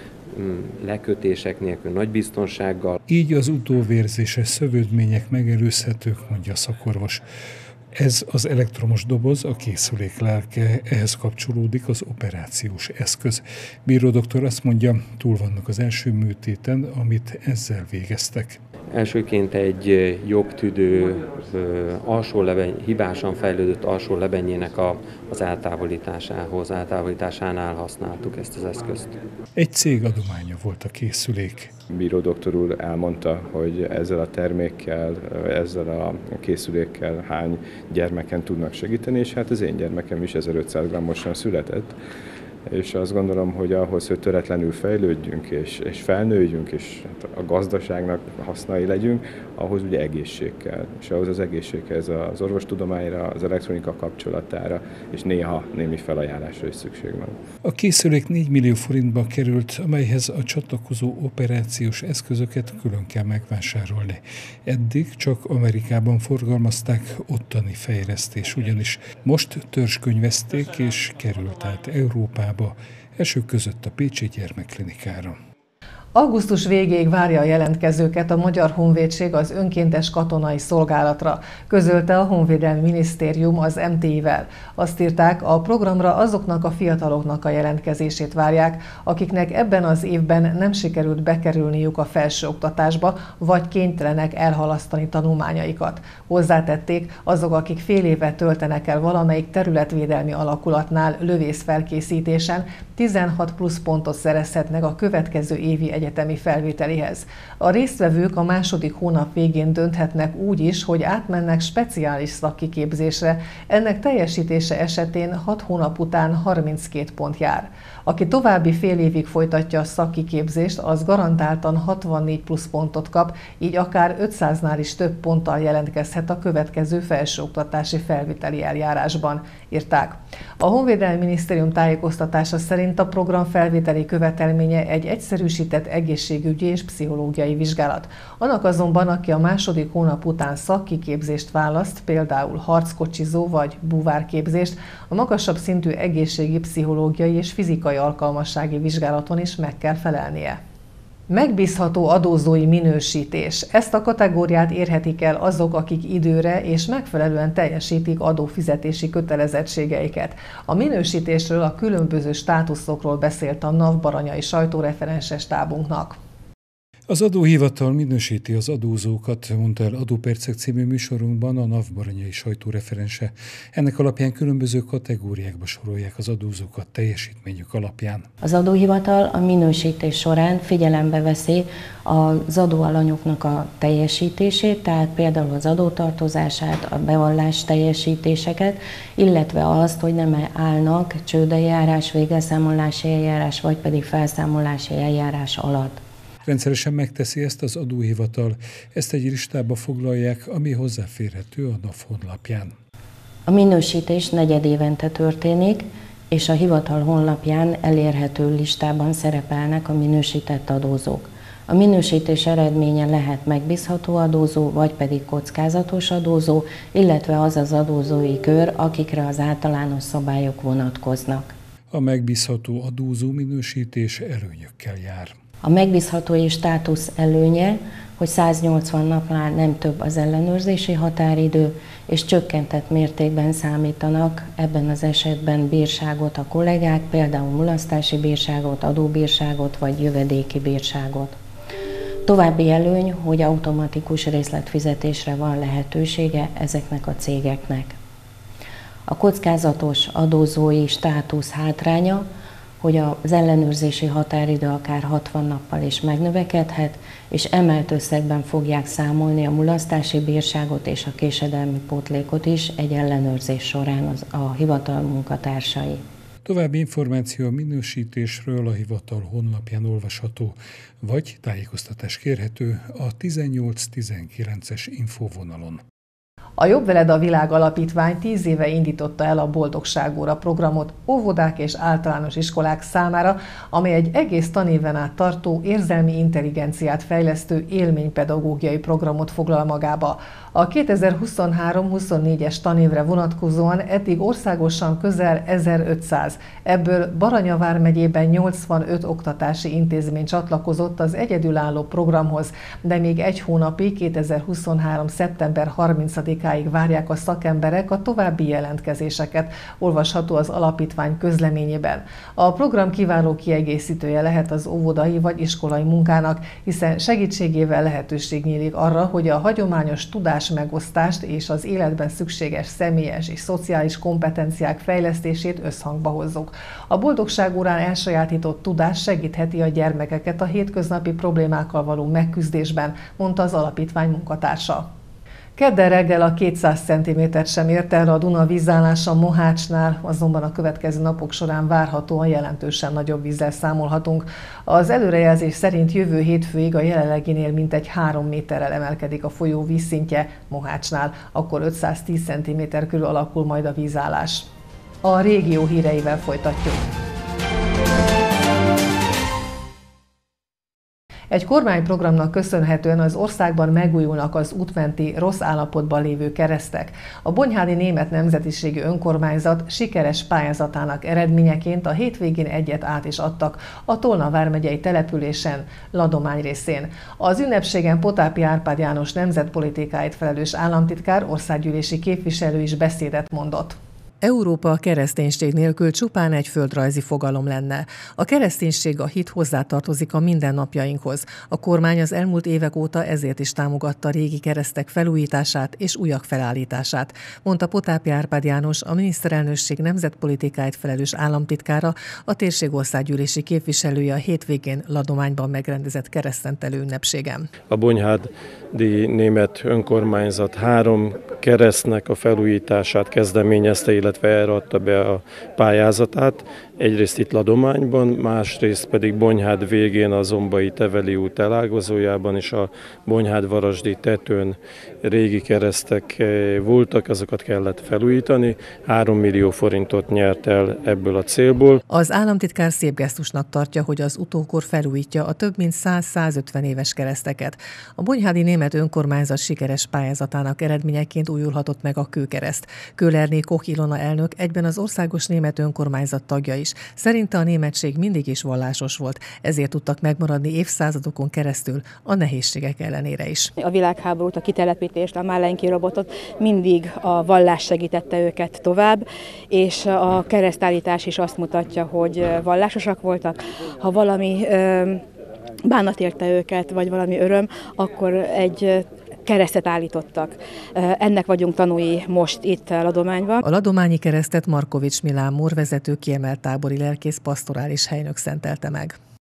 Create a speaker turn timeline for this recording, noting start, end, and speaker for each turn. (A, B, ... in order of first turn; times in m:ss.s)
0:00.3-0:03.0 A
0:03.1-0:07.2 B
0:08.0-0:18.6 B
0:18.9-0:29.2 A
0:29.6-0:31.7 B
0:31.9-0:42.0 C
0:42.7-0:57.4 C
0:57.6-1:15.4 B
1:16.1-2:30.6 D
2:31.3-2:46.2 D
2:47.1-2:58.3 B
2:58.4-3:16.0 E
3:16.4-3:22.7 B
3:23.5-3:41.5 E
3:41.9-3:45.3 B
3:45.6-4:01.4 E
4:02.2-4:08.0 E
4:09.1-4:12.2 E
4:12.8-4:26.0 E
4:26.4-4:35.8 B
4:36.6-5:34.9 D
5:35.6-5:54.5 D
5:55.0-5:56.9 D
6:01.3-6:47.5 D
6:47.7-7:11.8 F
7:11.9-7:33.5 D
7:33.6-7:45.0 G
7:45.6-7:53.4 G
7:53.4-7:59.0 D